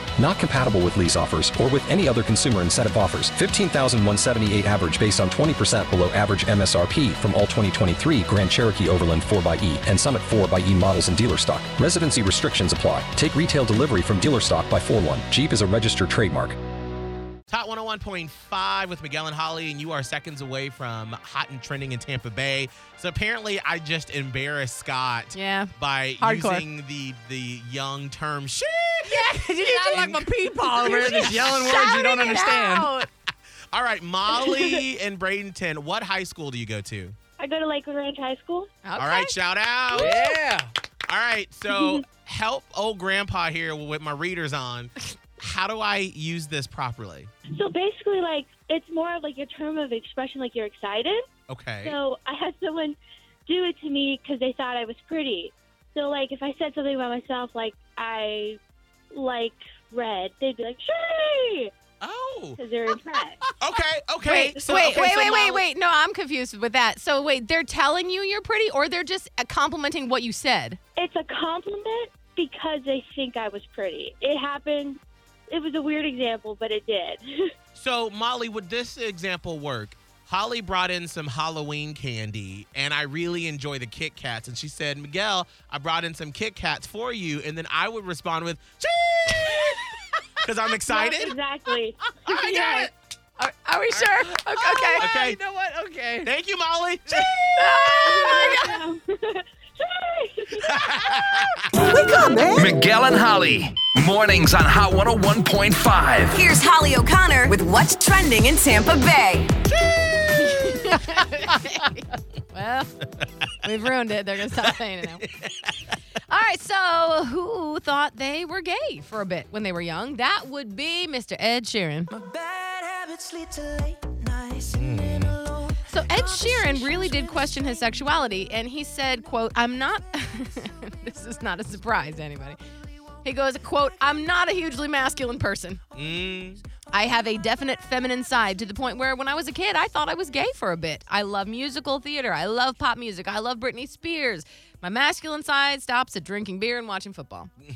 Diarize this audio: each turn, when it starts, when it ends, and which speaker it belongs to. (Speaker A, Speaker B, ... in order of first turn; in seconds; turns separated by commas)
Speaker A: 0.2-16.6, Speaker B: 17.5-30.2, Speaker C: 25.3-26.6, Speaker C: 29.1-33.1, Speaker D: 30.4-32.9, Speaker B: 33.7-37.2, Speaker E: 34.3-34.8, Speaker E: 37.4-38.7, Speaker C: 38.9-39.3, Speaker B: 39.0-40.2, Speaker F: 40.0-40.7, Speaker B: 41.1-47.3, Speaker E: 47.5-51.3, Speaker B: 51.5-52.0, Speaker E: 51.8-58.6, Speaker E: 59.1-61.7, Speaker B: 62.0-62.6, Speaker E: 62.6-63.5, Speaker B: 63.6-65.6, Speaker C: 64.2-70.8, Speaker E: 64.5-65.1, Speaker E: 71.0-77.3, Speaker B: 77.8-89.8, Speaker B: 90.4-91.3, Speaker E: 90.9-92.9, Speaker C: 93.4-95.1, Speaker D: 94.7-96.3, Speaker B: 95.0-95.4, Speaker B: 96.2-97.9, Speaker C: 97.5-98.7, Speaker E: 98.0-100.8, Speaker B: 100.6-102.0, Speaker G: 101.8-102.8, Speaker F: 102.5-106.4, Speaker G: 106.3-109.5, Speaker B: 109.8-110.8, Speaker C: 110.4-113.0, Speaker C: 113.6-115.3, Speaker C: 116.3-122.1, Speaker D: 122.2-124.7, Speaker B: 124.7-125.4, Speaker C: 125.9-132.6, Speaker C: 133.2-135.8, Speaker B: 135.9-136.6, Speaker C: 136.9-147.5